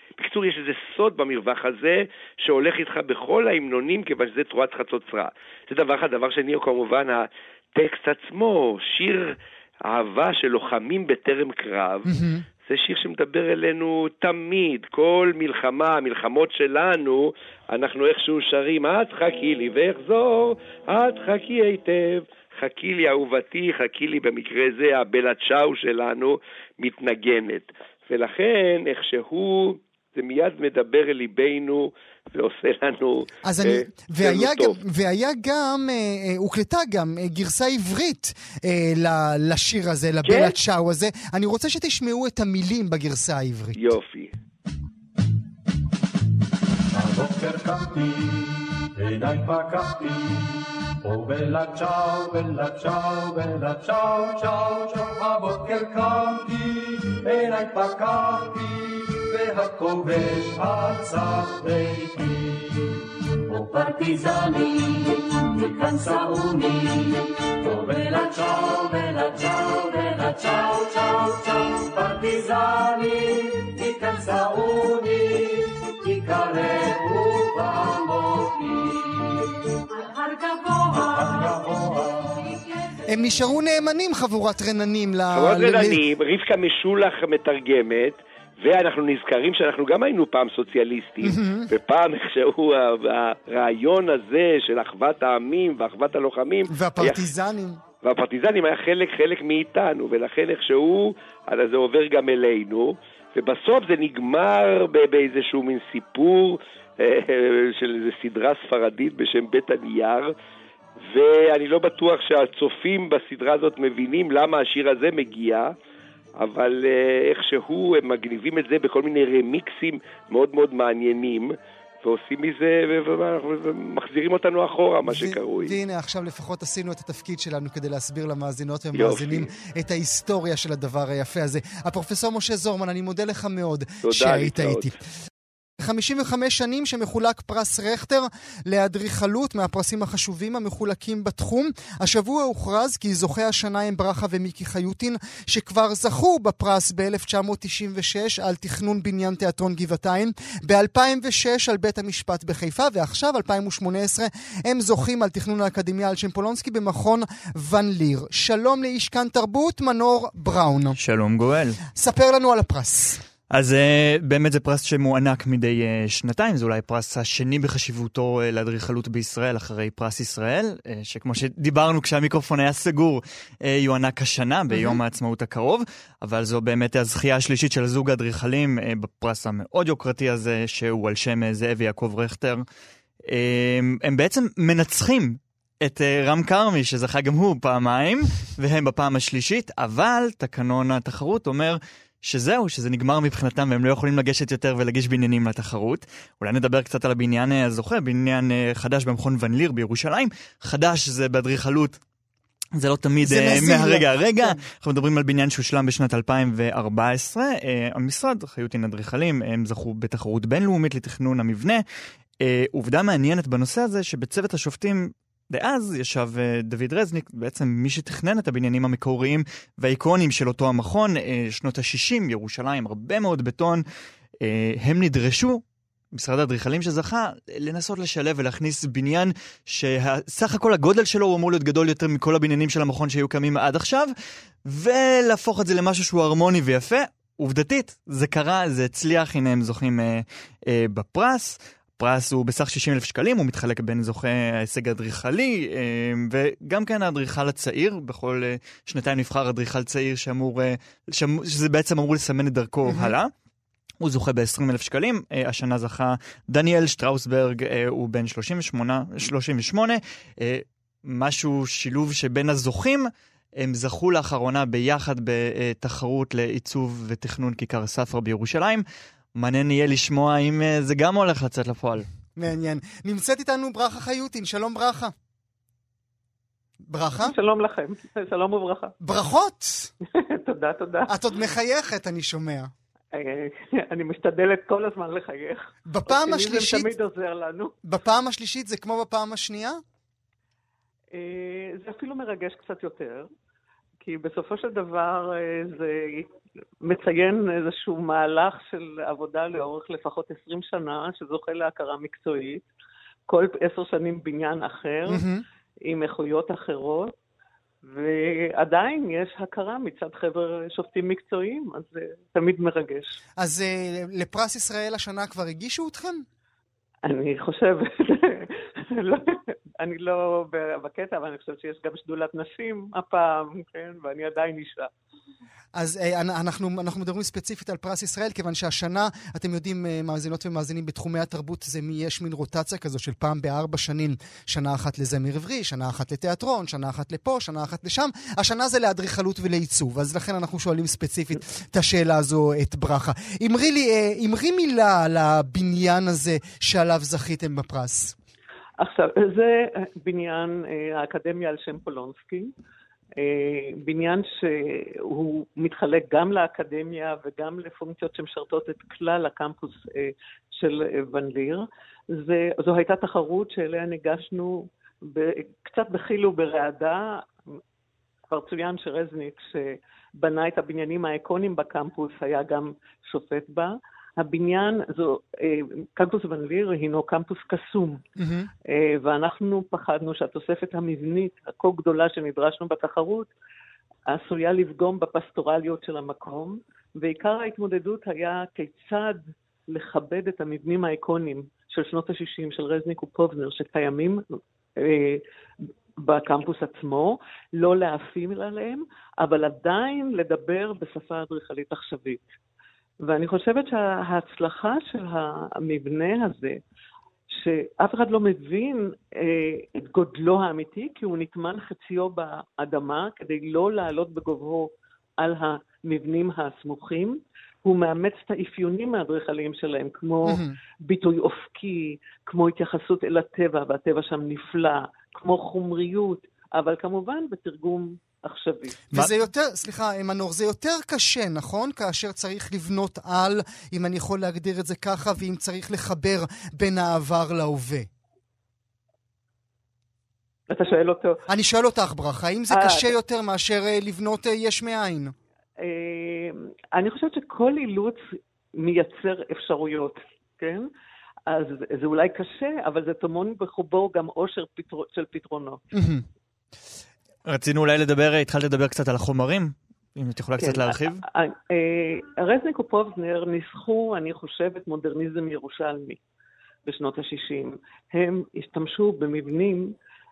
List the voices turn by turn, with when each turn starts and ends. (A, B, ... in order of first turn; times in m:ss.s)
0:00.2-0:12.1 A
0:12.1-0:12.4 B
0:12.6-0:34.8 A
0:33.4-0:43.8 B
0:40.2-0:40.6 A
0:43.8-0:44.3 A
0:46.9-1:22.7 C
1:23.1-1:26.0 B
1:25.3-1:37.2 A
1:31.2-1:31.7 B
1:36.7-1:37.8 B
1:38.0-1:50.3 A
1:51.0-1:55.7 A
1:56.4-2:05.8 A
2:05.1-2:15.0 B
2:08.9-2:09.5 A
2:14.0-2:14.9 A
2:15.8-2:41.0 B
2:41.0-2:41.8 D
2:42.0-2:43.2 B
2:43.5-3:02.6 D
2:54.7-2:55.0 B
3:03.2-3:22.0 D
3:22.8-3:31.8 D
3:23.2-3:24.6 B
3:32.4-3:43.8 D
3:44.4-3:54.1 D
3:54.7-4:13.3 D
4:12.9-4:13.1 B
4:14.0-4:28.8 D
4:29.4-4:32.1 D
4:32.4-4:35.1 B
4:36.9-4:37.3 B
4:37.2-4:39.0 E
4:39.0-4:39.9 B
4:40.0-4:41.2 E
4:41.1-4:42.7 B
4:43.1-4:47.7 E
4:45.9-4:46.9 B
4:47.8-4:49.8 B
4:51.1-4:53.3 E
4:54.0-4:56.3 E
4:56.8-5:02.7 E
5:03.3-5:05.3 E
5:05.1-5:05.4 B
5:05.8-5:07.1 E
5:07.8-5:13.2 E
5:13.4-5:16.3 B
5:17.1-5:24.9 E
5:25.8-5:48.2 B
5:48.8-5:52.5 E
5:53.2-6:07.3 E
6:08.3-6:18.0 E
6:18.2-6:18.5 B
6:18.7-6:23.3 E
6:24.1-6:34.2 E
6:34.8-6:35.2 E
6:36.0-6:42.3 E
6:43.0-6:46.6 E
6:47.3-7:08.9 E
7:00.3-7:00.6 B
7:08.9-7:17.9 B
7:20.5-7:21.2 E
7:21.3-7:25.1 B
7:22.5-7:22.9 E
7:25.6-7:28.0 E
7:28.6-7:30.7 E
7:31.3-7:35.6 E
7:35.7-7:36.0 B
7:37.3-7:41.0 D
7:40.4-7:46.0 E
7:46.7-7:49.8 E